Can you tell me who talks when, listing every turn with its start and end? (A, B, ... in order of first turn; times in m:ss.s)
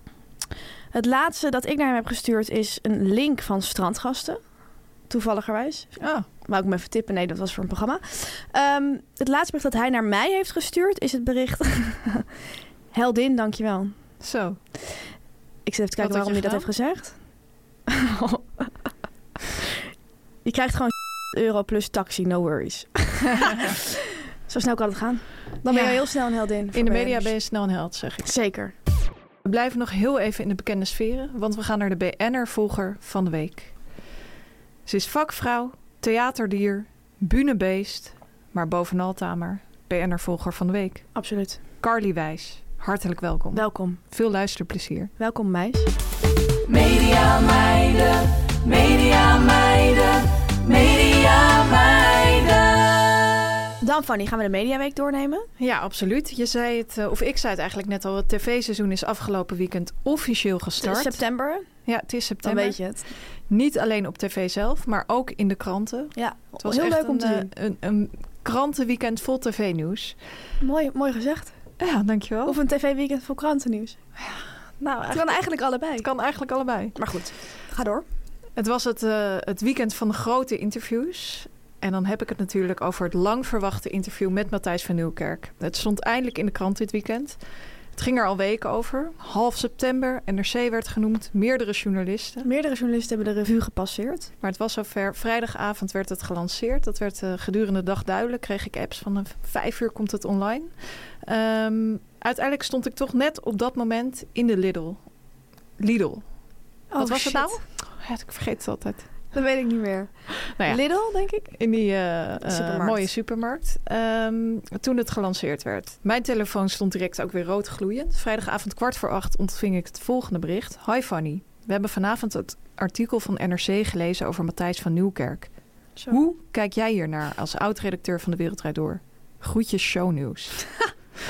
0:00.9-0:04.4 A
0:05.1-0:12.2 A
0:06.0-0:06.3 B
0:12.9-0:13.9 A
0:14.2-0:14.6 B
0:15.6-0:17.1 A
0:16.0-0:16.7 B
0:17.9-0:18.7 A
0:20.4-0:27.3 A
0:25.7-0:26.1 B
0:26.7-0:28.3 B
0:28.2-0:28.7 A
0:29.4-0:33.7 B
0:34.9-0:41.1 B
0:41.1-0:41.6 A
0:41.8-0:45.1 B
0:43.5-0:44.0 A
0:45.2-0:45.9 A
0:47.0-0:47.8 C
0:49.0-0:49.8 C
0:51.7-0:52.0 C
0:53.8-0:55.5 A
0:55.6-1:01.2 B
1:00.8-1:01.6 A
1:01.8-1:02.8 B
1:02.4-1:03.1 A
1:03.5-1:10.2 B
1:06.2-1:07.5 A
1:10.6-1:11.5 A
1:11.8-1:12.6 B
1:12.4-1:14.0 A
1:14.2-1:15.4 B
1:15.1-1:16.1 A
1:16.0-1:17.0 B
1:16.9-1:18.0 A
1:18.6-1:27.4 B
1:27.9-1:32.4 B
1:32.4-1:34.3 A
1:34.4-1:40.7 B
1:41.2-1:45.0 B
1:45.8-1:46.2 B
1:46.9-1:47.6 A
1:47.0-1:49.0 B
1:49.3-1:51.5 A
1:50.5-1:50.8 B
1:51.4-2:05.5 B
1:52.4-1:53.0 A
2:06.1-2:10.7 B